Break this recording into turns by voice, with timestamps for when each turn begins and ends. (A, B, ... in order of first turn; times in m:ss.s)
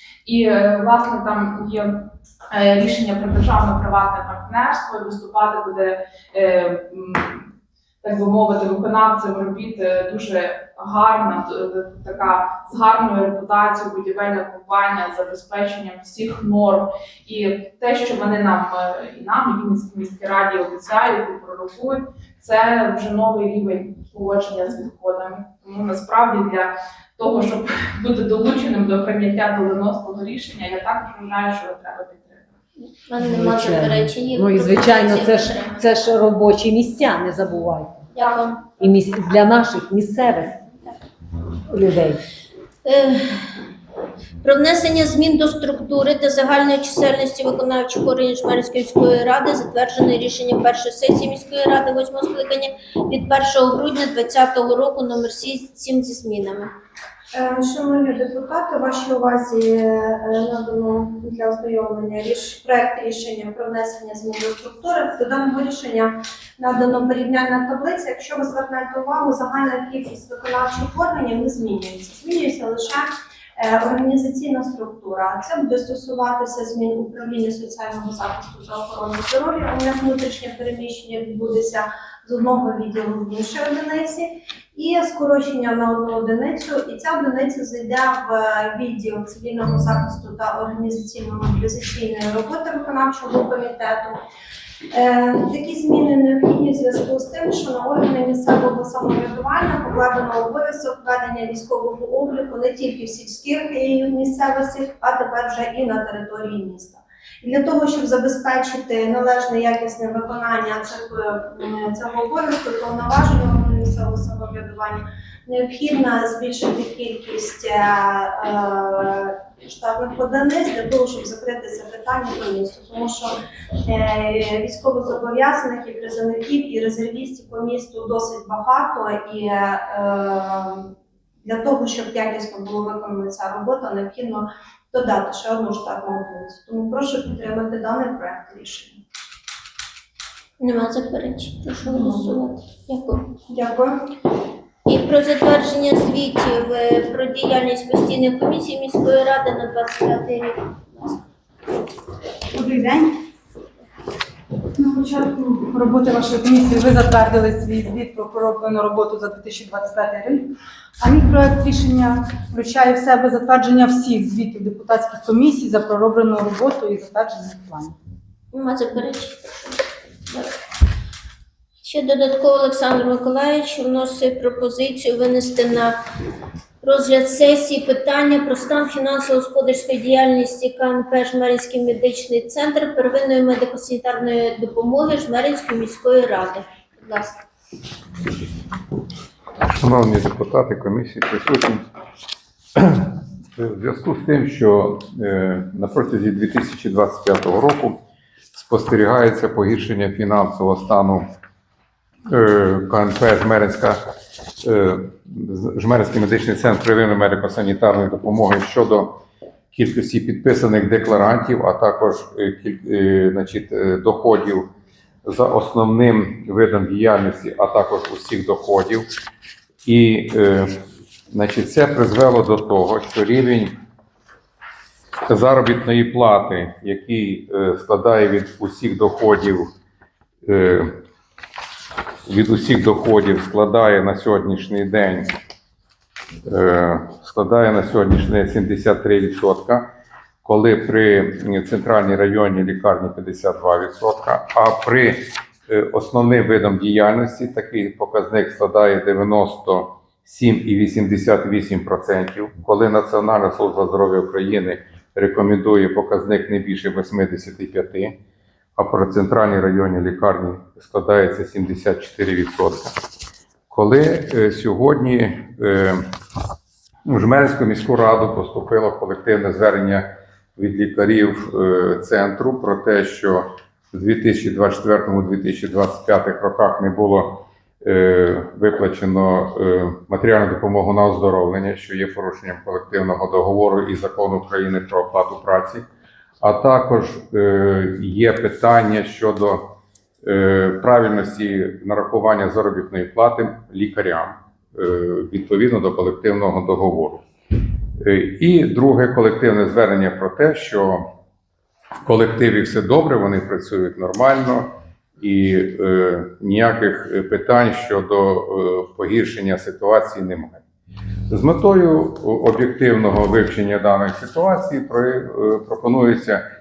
0:00.2-0:07.5 A
0:08.0-0:32.5 A
0:32.8-0:35.8 B
0:33.2-0:38.1 C
0:38.1-0:38.7 B
0:38.8-0:40.6 C
0:41.7-0:42.2 C
0:42.8-0:43.5 B
0:44.4-0:56.7 B
0:57.3-1:13.1 D
1:13.6-1:34.2 D
1:34.9-2:03.3 D
2:03.8-2:10.9 D
2:11.4-2:19.0 D
2:20.6-2:23.3 B
2:21.8-2:22.4 D
2:23.5-2:24.0 D
2:24.8-2:31.2 B
2:32.5-2:33.2 E
2:34.8-2:47.9 E
2:48.5-2:50.5 B
2:51.8-2:56.0 B
2:56.8-3:07.4 B
3:09.6-3:11.8 F
3:12.8-3:18.0 F
3:18.5-3:21.2 F
3:22.3-3:24.0 F
3:24.6-3:29.2 F
3:29.7-3:34.7 F
3:35.2-3:39.0 F
3:39.8-3:40.7 F
3:41.3-3:43.7 F
3:45.3-3:49.6 F
3:50.4-3:50.9 F
3:52.3-3:55.3 F
3:56.5-3:59.9 F
4:00.4-4:18.2 F
4:18.8-4:22.9 F
4:23.7-4:26.0 F
4:27.1-4:45.8 F
4:46.4-4:49.6 F
4:50.2-4:57.2 F
4:58.0-5:01.0 F
5:02.0-5:04.7 F
5:05.2-5:10.6 F
5:11.3-5:16.4 F